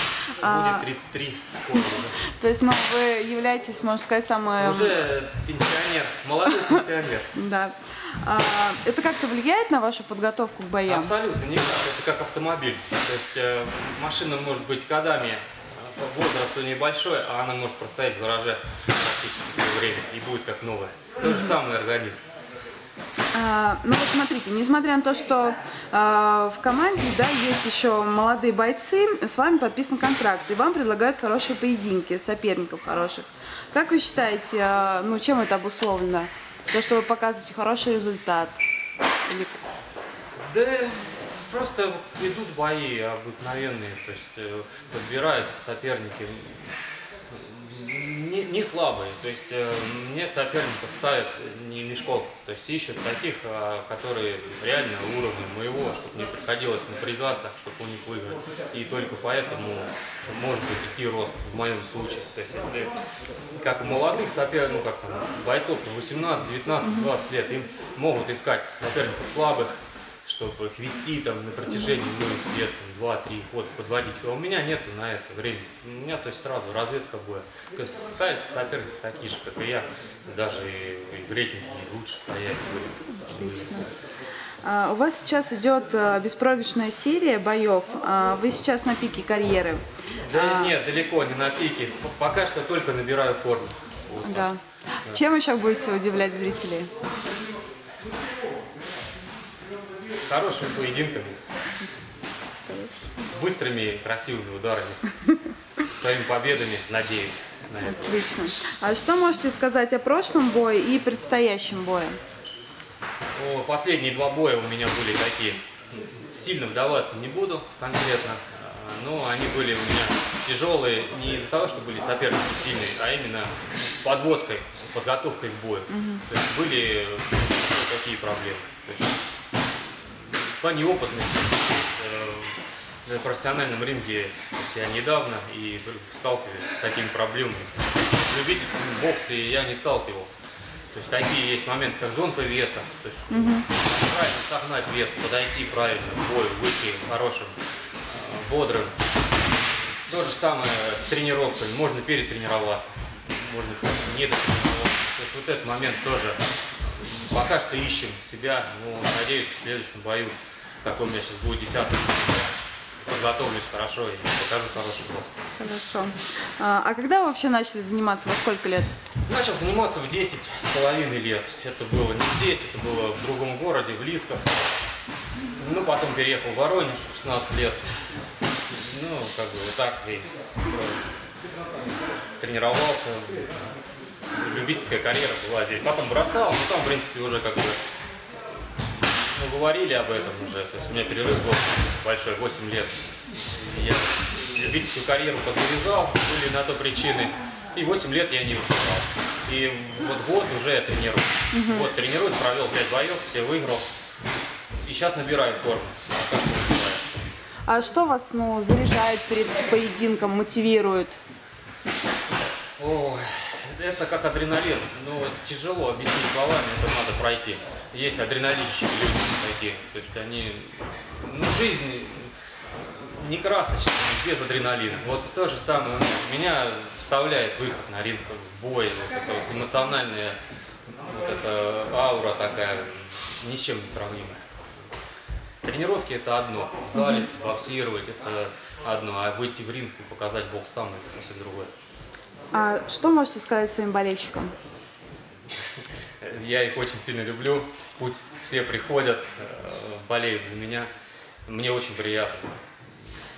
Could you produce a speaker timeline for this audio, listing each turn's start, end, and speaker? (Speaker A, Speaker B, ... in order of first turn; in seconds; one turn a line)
Speaker A: 0.4-2.2
Speaker B: 0.4-0.9
Speaker B: 2.2-5.0
Speaker A: 4.6-7.3
Speaker B: 7.3-11.1
Speaker A: 10.9-22.2
Speaker B: 21.2-21.6
Speaker B: 23.3-38.6
Speaker B: 39.2-39.6
Speaker A: 40.4-46.8
Speaker A: 47.3-62.9
Speaker A: 63.5-83.8
Speaker B: 83.2-83.9
Speaker B: 84.6-90.8
Speaker A: 90.3-94.5
Speaker B: 94.2-96.9
Speaker A: 100.2-101.4
Speaker B: 102.6-103.1
Speaker A: 102.8-105.2
Speaker A: 105.8-108.3
Speaker B: 107.9-112.2
Speaker A: 113.4-129.2
Speaker B: 125.9-126.2
Speaker A: 130.2-140.4
Speaker A: 140.9-147.6
Speaker B: 143.3-143.7
Speaker A: 148.1-149.0
Speaker A: 150.1-162.6
Speaker A: 163.1-165.4
Speaker B: 165.6-168.9
Speaker A: 169.3-174.6
Speaker A: 175.5-177.9
Speaker A: 178.7-180.9
Speaker A: 182.4-183.6
Speaker A: 184.3-187.8
Speaker A: 189.0-203.9
Speaker B: 201.5-201.9
Speaker A: 204.8-207.2
Speaker B: 207.7-211.2
Speaker A: 212.8-234.4
Speaker A: 235.6-241.7
Speaker B: 237.0-237.2
Speaker B: 242.5-244.5
Speaker A: 246.2-250.9
Speaker A: 251.5-252.7